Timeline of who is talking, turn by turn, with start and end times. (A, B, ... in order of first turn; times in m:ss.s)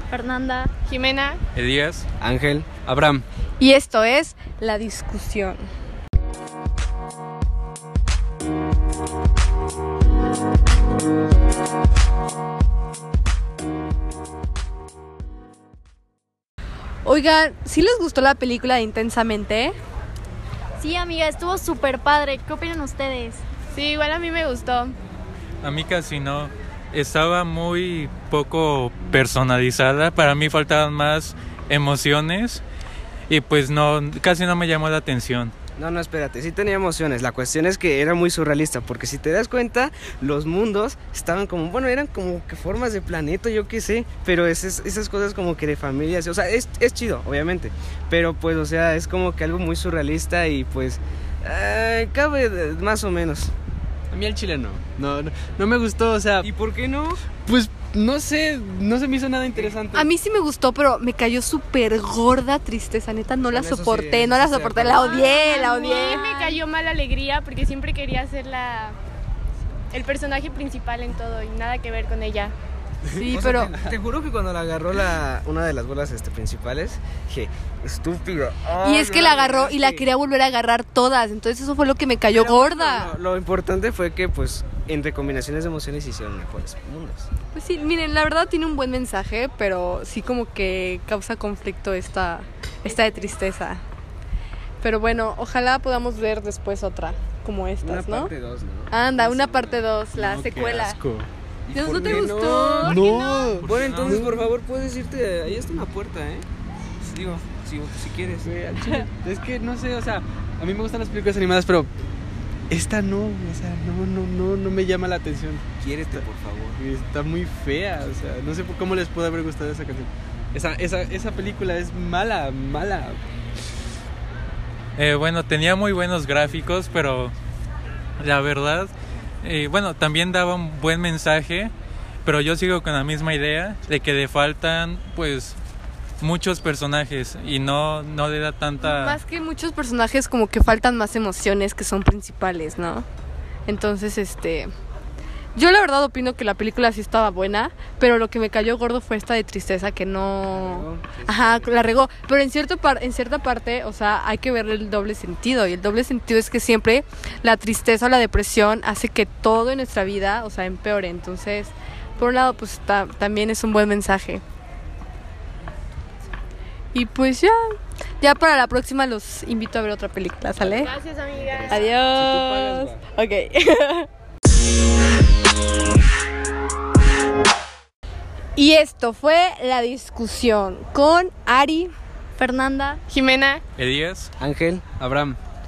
0:00.1-0:00.7 A
0:00.8-0:01.4 B
0:01.5-0:02.0 C
0:02.2-0:02.8 D
0:02.8-0:03.2 E
0:03.6-0:05.6 F
0:17.0-0:19.7 F
0:20.8-0:23.4 A
0:23.7-0:24.9 B
0:25.6-0:32.6 C
0:33.3-0:35.5 C
0:35.8-0:53.5 D
0:54.1-0:56.5 E
0:56.4-0:57.2 D
0:57.3-1:00.1 E
0:59.9-1:06.5 F
1:03.5-1:05.4 D
1:05.0-1:09.0 B
1:09.9-1:12.5 B
1:13.0-1:13.3 E
1:13.1-1:13.7 F
1:13.3-1:20.0 D
1:18.8-1:23.1 F
1:22.3-1:27.3 D
1:27.5-1:33.8 F
1:34.8-1:38.3 F
1:37.8-1:39.9 D
1:38.9-1:41.0 F
1:40.1-1:41.3 E
1:41.7-1:46.4 D
1:41.7-1:43.4 F
1:42.8-1:44.4 E
1:43.6-1:44.2 C
1:47.0-1:48.5 D
1:48.4-1:51.9 E
1:52.7-1:56.2 E
1:55.8-1:56.8 D
1:56.8-2:03.2 E
2:05.0-2:07.3 C
2:08.2-2:08.9 C
2:09.4-2:11.7 C
2:12.2-2:15.6 C
2:16.2-2:19.2 C
2:18.8-2:23.0 F
2:23.6-2:24.7 F
2:25.6-2:44.4 F
2:30.5-2:31.9 D
2:46.9-2:50.9 F
2:50.6-2:50.9 D
2:50.8-2:51.9 B
2:51.4-2:51.9 D
2:51.7-2:54.1 F
2:52.0-2:53.0 E
2:58.6-3:01.9 F
3:02.4-3:03.0 A
3:03.1-3:03.6 B
3:03.8-3:04.3 C
3:04.4-3:04.9 D
3:04.9-3:05.4 E